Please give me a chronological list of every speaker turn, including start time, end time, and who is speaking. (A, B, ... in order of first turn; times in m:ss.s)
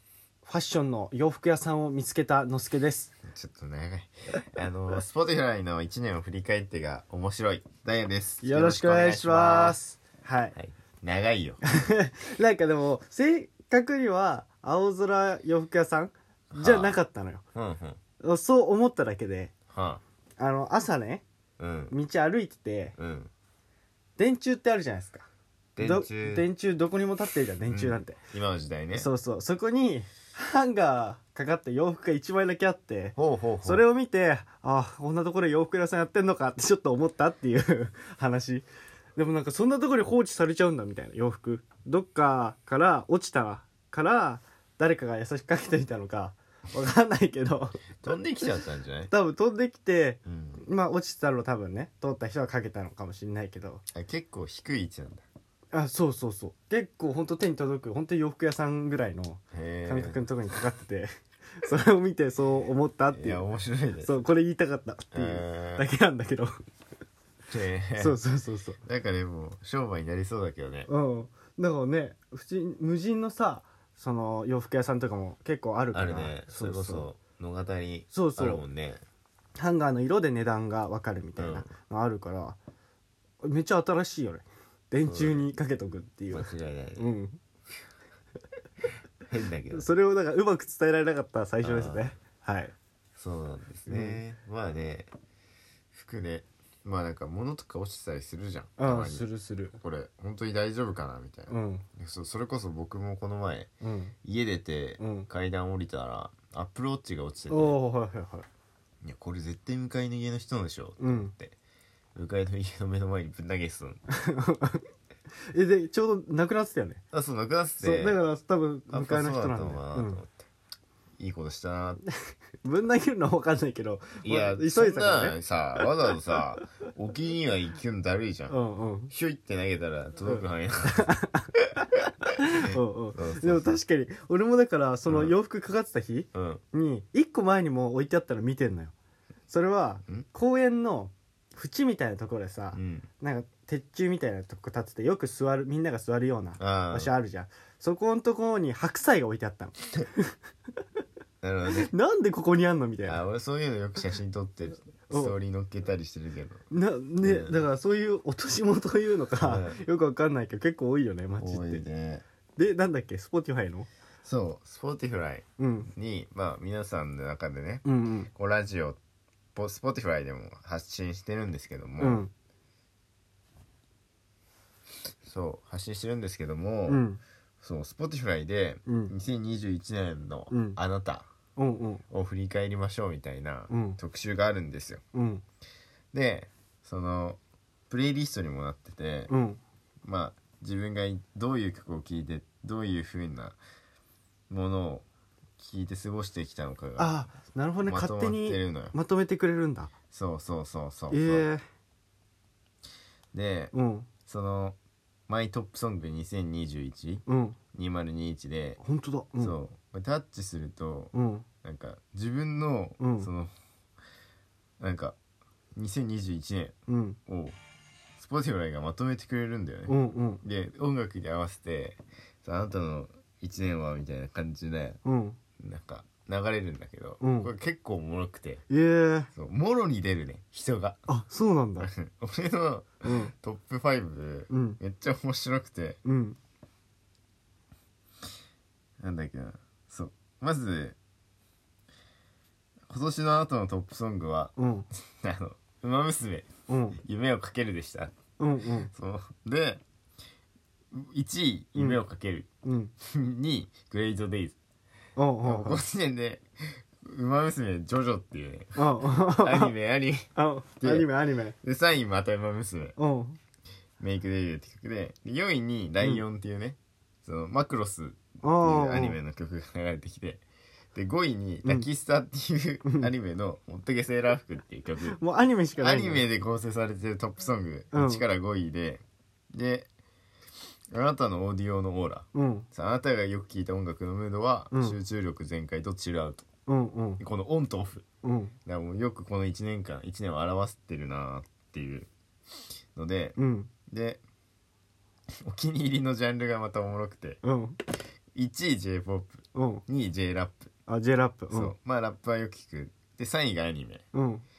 0:00.4-0:03.1 A
0:03.3-0:09.8 B
0:08.4-0:10.6 A
0:10.6-0:11.6 B
0:11.7-0:17.4 A
0:16.5-0:17.0 B
0:17.6-0:18.0 B
0:18.2-0:19.5 A
0:19.7-0:20.0 B
0:20.4-0:21.2 A
0:21.6-0:22.0 B
0:21.9-0:23.0 A
0:23.0-0:23.3 B
0:24.2-0:25.3 A
0:25.8-0:26.5 B
0:25.8-0:28.2 A
0:27.7-0:29.1 B
0:28.9-0:47.8 A
0:33.2-0:33.8 B
0:48.0-0:49.1 B
0:49.1-0:53.8 A
0:50.2-0:50.6 B
0:53.9-0:55.2 B
0:55.7-1:03.4 A
0:59.5-1:00.3 B
1:03.1-1:04.3 B
1:04.0-1:06.5 A
1:05.1-1:05.9 B
1:07.5-1:08.2 B
1:08.0-1:08.8 A
1:08.8-1:10.9 B
1:10.9-1:17.1 A
1:15.9-1:19.0 B
1:18.1-1:18.6 A
1:19.6-1:22.6 A
1:21.4-1:21.7 B
1:23.4-1:27.4 A
1:25.0-1:25.4 B
1:26.3-1:27.1 B
1:29.2-1:29.9 B
1:29.7-1:32.8 A
1:31.6-1:32.1 B
1:33.2-1:35.1 B
1:33.9-1:34.2 A
1:35.9-1:39.3 B
1:38.8-1:39.8 A
1:39.8-1:43.7 B
1:41.5-1:41.8 A
1:43.8-1:44.1 A
1:44.2-1:47.8 B
1:45.0-1:45.3 A
1:47.5-1:48.4 A
1:49.0-1:51.6 B
1:51.0-1:51.3 A
1:52.2-1:54.0 B
1:54.1-1:54.8 A
1:55.5-1:57.0 A
1:57.1-1:58.2 B
1:57.8-2:00.2 A
1:58.9-2:00.5 B
2:01.2-2:02.0 B
2:02.6-2:05.4 A
2:04.2-2:08.6 B
2:08.5-2:09.1 A
2:09.1-2:11.1 B
2:10.2-2:11.5 A
2:12.4-2:18.9 A
2:12.6-2:13.8 B
2:15.1-2:15.3 B
2:16.3-2:16.6 B
2:19.5-2:30.3 A
2:22.7-2:23.1 B
2:26.6-2:27.1 B
2:31.4-2:31.9 B
2:31.8-2:33.2 A
2:33.1-2:36.6 B
2:35.1-2:35.3 A
2:36.7-2:41.8 A
2:37.2-2:37.7 B
2:39.4-2:39.8 B
2:41.4-2:42.2 B
2:42.6-2:43.9 A
2:44.2-2:49.0 B
2:45.6-2:45.9 A
2:47.8-2:48.3 A
2:49.6-2:52.2 B
2:52.0-2:52.3 A
2:55.2-2:57.0 B
2:56.9-2:57.2 A
2:57.6-3:01.3 B
2:58.9-2:59.1 A
3:00.5-3:00.8 A
3:01.6-3:02.0 A
3:02.1-3:05.0 B
3:03.7-3:04.0 A
3:05.1-3:05.4 A
3:06.1-3:09.3 B
3:09.3-3:09.6 A
3:10.0-3:13.6 B
3:14.5-3:15.1 B
3:15.6-3:17.2 B
3:17.0-3:19.9 A
3:17.8-3:18.9 B
3:20.1-3:21.5 B
3:21.1-3:21.6 A
3:23.3-3:23.7 B
3:23.7-3:24.1 A
3:24.2-3:24.8 B
3:25.3-3:28.8 B
3:27.3-3:27.6 A
3:28.8-3:29.6 A
3:29.4-3:33.5 B
3:31.1-3:31.5 A
3:33.0-3:33.3 A
3:34.8-3:35.2 B
3:35.8-3:36.8 B
3:36.9-3:37.2 A
3:37.3-3:37.6 B
3:38.2-3:45.0 B
3:39.9-3:40.4 A
3:45.0-3:45.4 A
3:45.6-3:48.6 B
3:47.2-3:47.5 A
3:48.7-3:49.3 A
3:49.3-3:51.0 B
3:51.1-3:51.9 A
3:51.8-3:56.0 B
3:53.0-3:53.3 A
3:54.5-3:54.8 A
3:56.0-3:56.4 A
3:59.0-4:01.0 B
4:02.9-4:06.5 B
4:04.6-4:04.9 A
4:06.7-4:07.0 A
4:07.0-4:08.2 B
4:08.4-4:08.9 A
4:08.9-4:09.8 B
4:10.9-4:12.5 B
4:11.8-4:12.0 A
4:12.6-4:12.9 A
4:13.0-4:14.6 B
4:15.2-4:15.8 A
4:15.4-4:21.1 B
4:18.8-4:19.7 A
4:20.4-4:21.6 A
4:21.6-4:23.0 B
4:23.0-4:23.4 A
4:24.0-4:30.4 B
4:28.4-4:29.2 A
4:30.9-4:35.2 B
4:35.1-4:36.2 A
4:35.8-4:39.9 B
4:37.9-4:38.2 A
4:40.9-4:46.5 B
4:42.3-4:42.7 A
4:46.7-4:47.2 A
4:47.2-4:48.0 B
4:48.2-4:48.6 A
4:48.7-4:52.1 B
4:52.9-4:53.4 B
4:53.4-4:53.7 A
4:53.9-4:54.2 B
4:55.4-4:57.4 B
4:57.4-4:57.8 A
4:58.3-5:00.7 B
4:59.5-4:59.8 A
5:00.9-5:01.8 A
5:01.5-5:04.1 B
5:04.1-5:04.4 A